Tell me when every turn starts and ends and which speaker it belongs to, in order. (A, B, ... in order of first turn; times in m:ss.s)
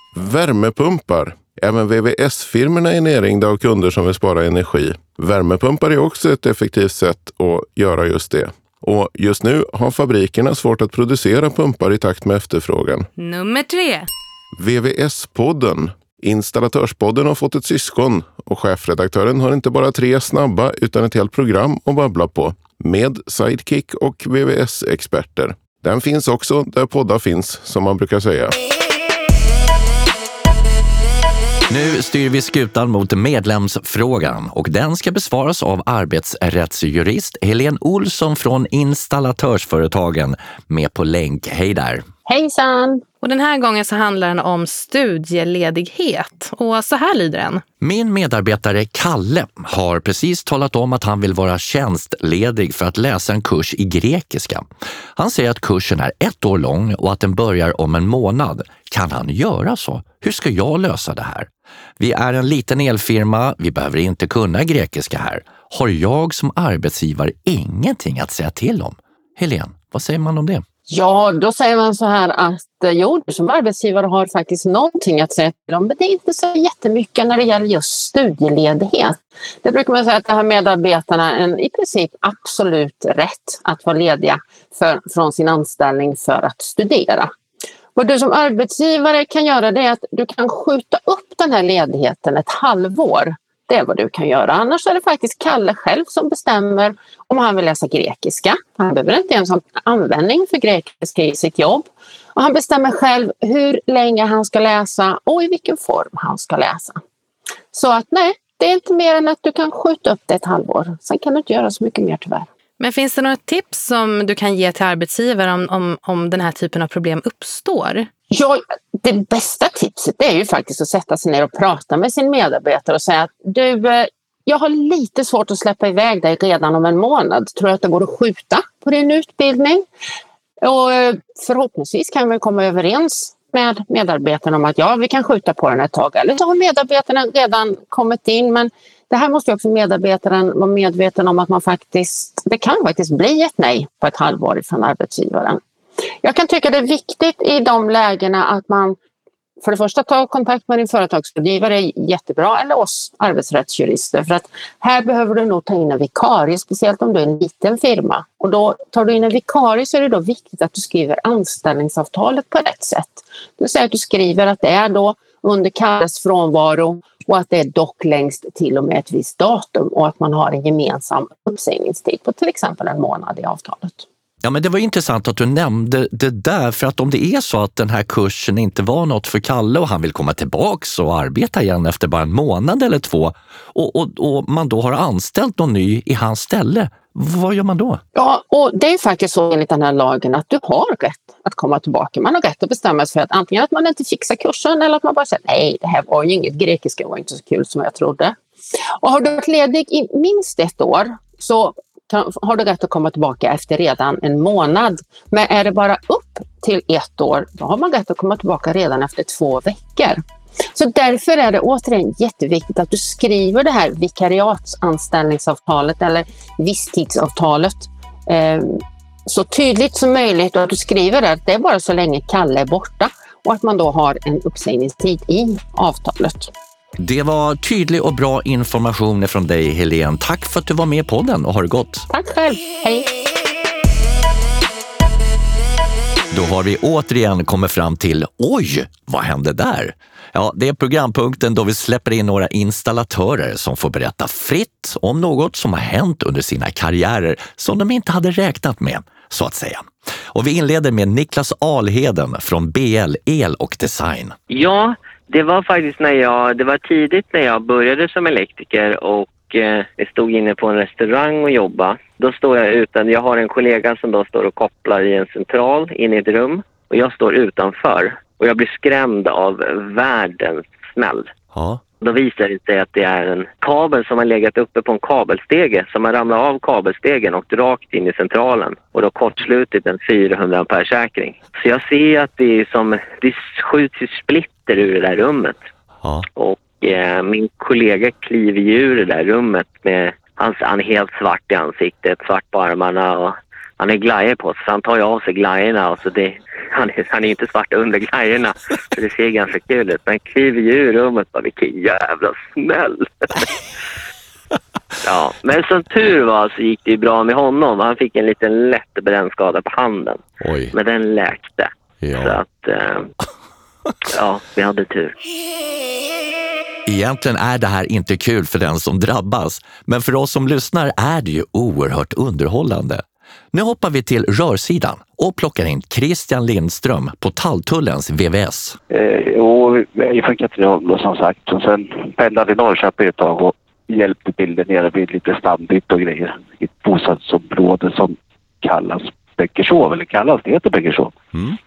0:00.2-0:13.1 A
0:13.2-0:14.0 B
0:14.6-0:28.6 A
0:31.7-0:42.0 C
0:42.2-0:43.0 D
0:43.2-0:47.6 B
0:47.8-0:54.6 C
0:55.2-1:01.5 C
1:02.0-1:10.6 C
1:10.9-1:27.3 D
1:28.0-1:47.0 D
1:47.7-1:52.5 D
1:52.8-1:58.1 B
1:58.3-2:09.8 D
2:10.6-2:25.6 D
2:26.2-2:29.0 D
2:29.6-2:54.0 D
2:54.4-3:08.0 C
3:08.1-3:18.4 D
3:19.0-3:30.2 D
3:30.7-3:46.5 D
3:47.0-3:52.1 C
3:52.1-3:53.1 D
3:56.3-4:14.4 C
4:14.5-4:31.3 E
4:31.5-4:31.8 C
4:32.0-4:45.6 E
4:46.4-5:03.4 E
5:05.0-5:10.2 E
5:10.4-5:10.7 C
5:10.7-5:13.1 E
5:12.0-5:12.4 C
5:14.1-5:15.1 E
5:16.8-5:28.8 C
5:28.9-5:41.1 F